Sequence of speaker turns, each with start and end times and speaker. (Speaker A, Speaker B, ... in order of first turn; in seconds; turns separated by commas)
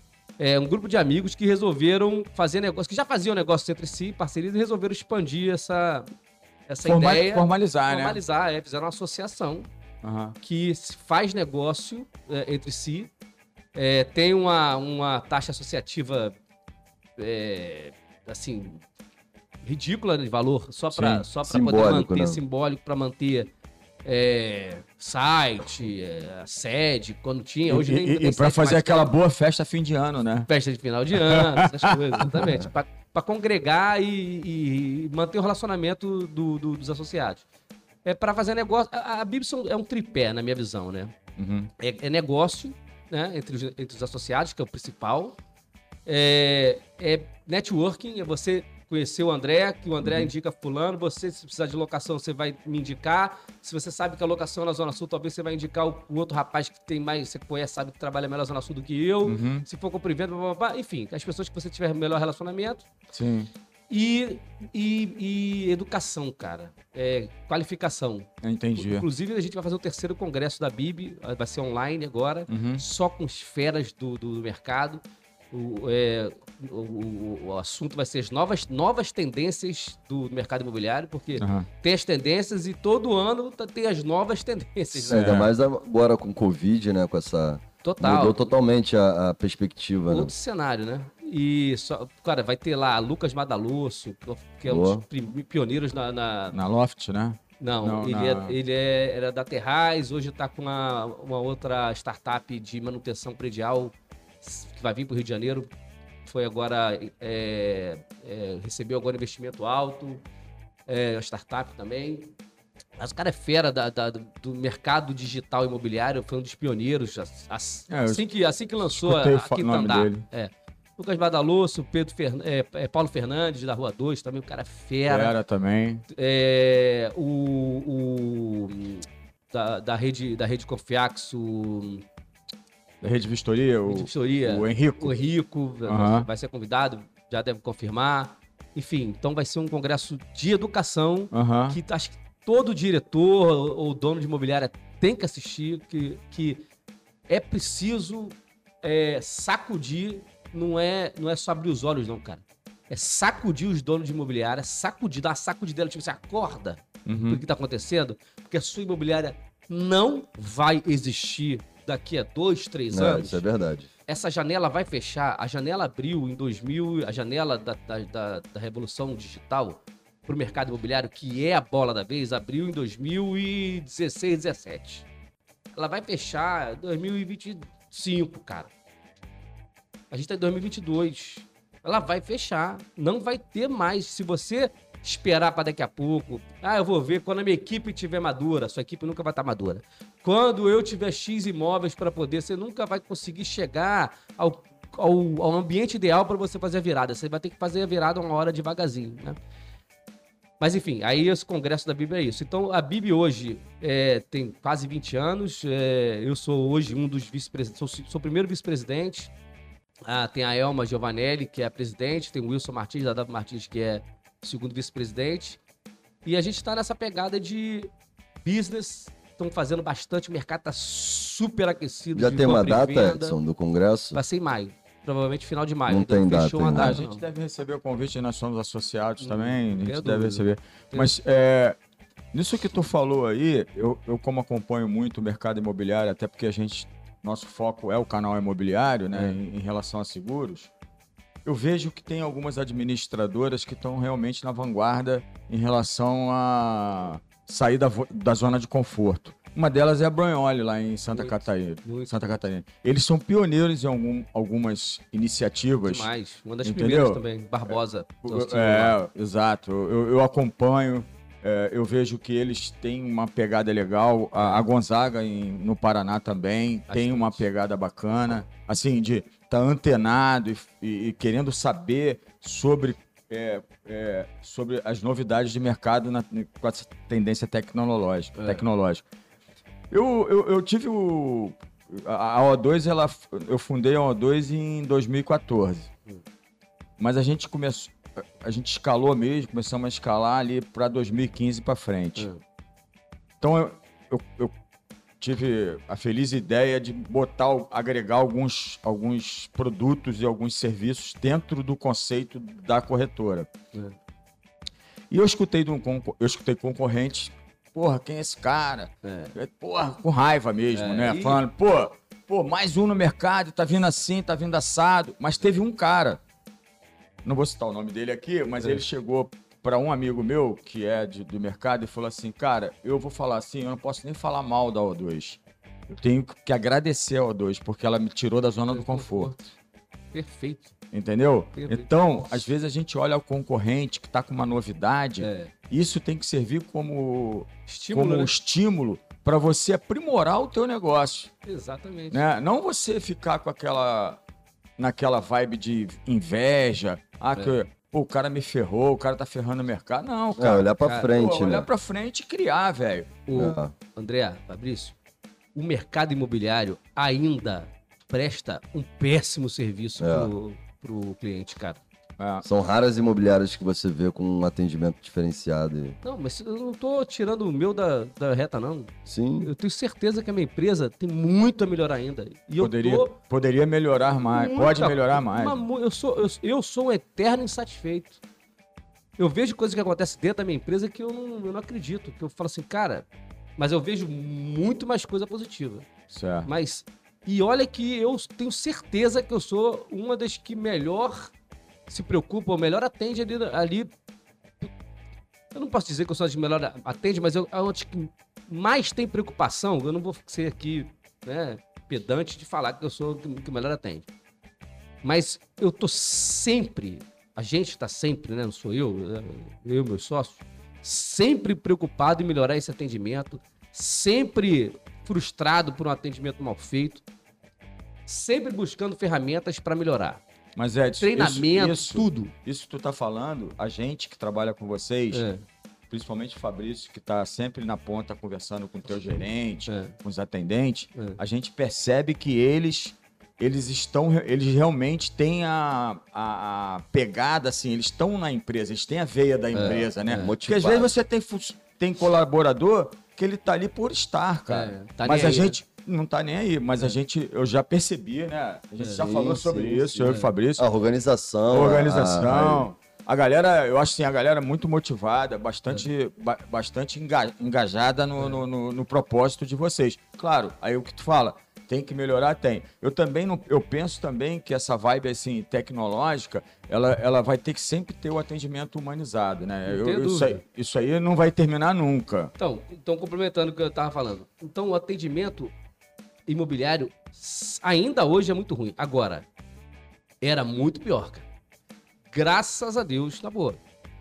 Speaker A: 0.4-6.1, Speaker A: 6.7-9.7, Speaker B: 6.8-8.2, Speaker B: 10.0-10.3, Speaker A: 10.4-13.1, Speaker A: 13.7-16.4, Speaker A: 17.2-18.8, Speaker A: 19.6-23.5, Speaker B: 20.9-21.2, Speaker C: 21.4-22.4, Speaker A: 24.0-29.1, Speaker B: 27.7-30.5, Speaker A: 30.5-37.4, Speaker B: 31.1-32.5, Speaker A: 38.0-41.1, Speaker B: 41.4-41.7, Speaker A: 41.8-45.4, Speaker A: 46.0-62.9, Speaker B: 50.0-50.3, Speaker B: 59.2-59.6, Speaker B: 63.1-63.5, Speaker A: 63.9-85.4, Speaker B: 68.4-69.1, Speaker B: 72.5-72.8, Speaker B: 81.4-81.7, Speaker C: 85.0-90.3, Speaker B: 85.1-85.5, Speaker A: 87.8-88.4, Speaker A: 90.1-96.5, Speaker C: 94.7-95.0, Speaker B: 96.5-98.5, Speaker A: 97.6-105.7, Speaker A: 106.2-110.2, Speaker A: 110.9-112.3, Speaker A: 113.0-125.3, Speaker B: 117.9-118.2, Speaker B: 118.8-120.2, Speaker B: 125.1-126.0, Speaker A: 126.1-132.0, Speaker B: 133.0-135.2, Speaker A: 133.9-146.6, Speaker B: 135.9-136.3, Speaker B: 141.3-141.8, Speaker A: 147.3-163.4, Speaker B: 157.1-157.4, Speaker C: 162.9-163.9, Speaker A: 164.1-175.1, Speaker A: 175.8-178.7, Speaker A: 180.1-199.4, Speaker A: 200.6-209.3, Speaker A: 210.1-215.6, Speaker A: 216.2-217.9, Speaker A: 218.4-223.4, Speaker C: 222.1-224.2, Speaker A: 224.1-227.2, Speaker C: 225.9-227.0, Speaker B: 226.7-231.8, Speaker A: 229.2-231.1, Speaker B: 232.3-240.7, Speaker A: 239.1-239.4, Speaker B: 241.4-256.1, Speaker A: 251.1-252.3, Speaker A: 255.8-259.0, Speaker B: 256.6-257.7, Speaker B: 258.2-279.0, Speaker A: 266.9-267.5, Speaker A: 278.4-278.6, Speaker B: 279.9-285.9, Speaker B: 287.0-292.3, Speaker B: 293.4-294.5, Speaker B: 295.2-303.5, Speaker B: 305.1-316.2, Speaker A: 309.0-309.3, Speaker A: 310.7-311.4, Speaker B: 317.2-329.3, Speaker A: 328.7-329.5, Speaker A: 330.1-330.7, Speaker B: 330.9-341.3, Speaker A: 331.6-331.9, Speaker A: 335.2-335.5, Speaker A: 337.7-338.3, Speaker A: 341.4-342.2, Speaker B: 342.1-344.2, Speaker B: 344.8-353.2, Speaker C: 350.4-351.7, Speaker A: 350.8-351.1, Speaker A: 353.3-354.9, Speaker C: 353.3-353.7, Speaker A: 355.5-361.8, Speaker C: 360.0-360.3, Speaker B: 362.2-362.4, Speaker C: 362.4-365.9, Speaker A: 366.0-373.1, Speaker C: 369.1-369.5, Speaker B: 372.6-375.6, Speaker A: 374.2-378.2, Speaker A: 379.2-383.1, Speaker A: 383.6-385.9, Speaker B: 386.1-386.5, Speaker A: 386.4-391.3, Speaker A: 391.9-393.9, Speaker A: 395.5-404.1, Speaker A: 405.0-417.0, Speaker A: 418.1-420.2, Speaker B: 420.6-425.3, Speaker A: 421.0-422.3, Speaker A: 425.1-425.4, Speaker B: 425.9-450.6, Speaker A: 429.7-429.9, Speaker A: 439.5-440.3, Speaker C: 440.1-440.9, Speaker A: 444.5-445.5, Speaker A: 448.8-449.1, Speaker C: 448.9-452.7, Speaker A: 450.0-450.3, Speaker B: 451.5-472.3, Speaker A: 469.6-470.4, Speaker A: 472.4-475.5, Speaker A: 476.3-479.2, Speaker A: 480.2-481.2, Speaker A: 482.1-483.6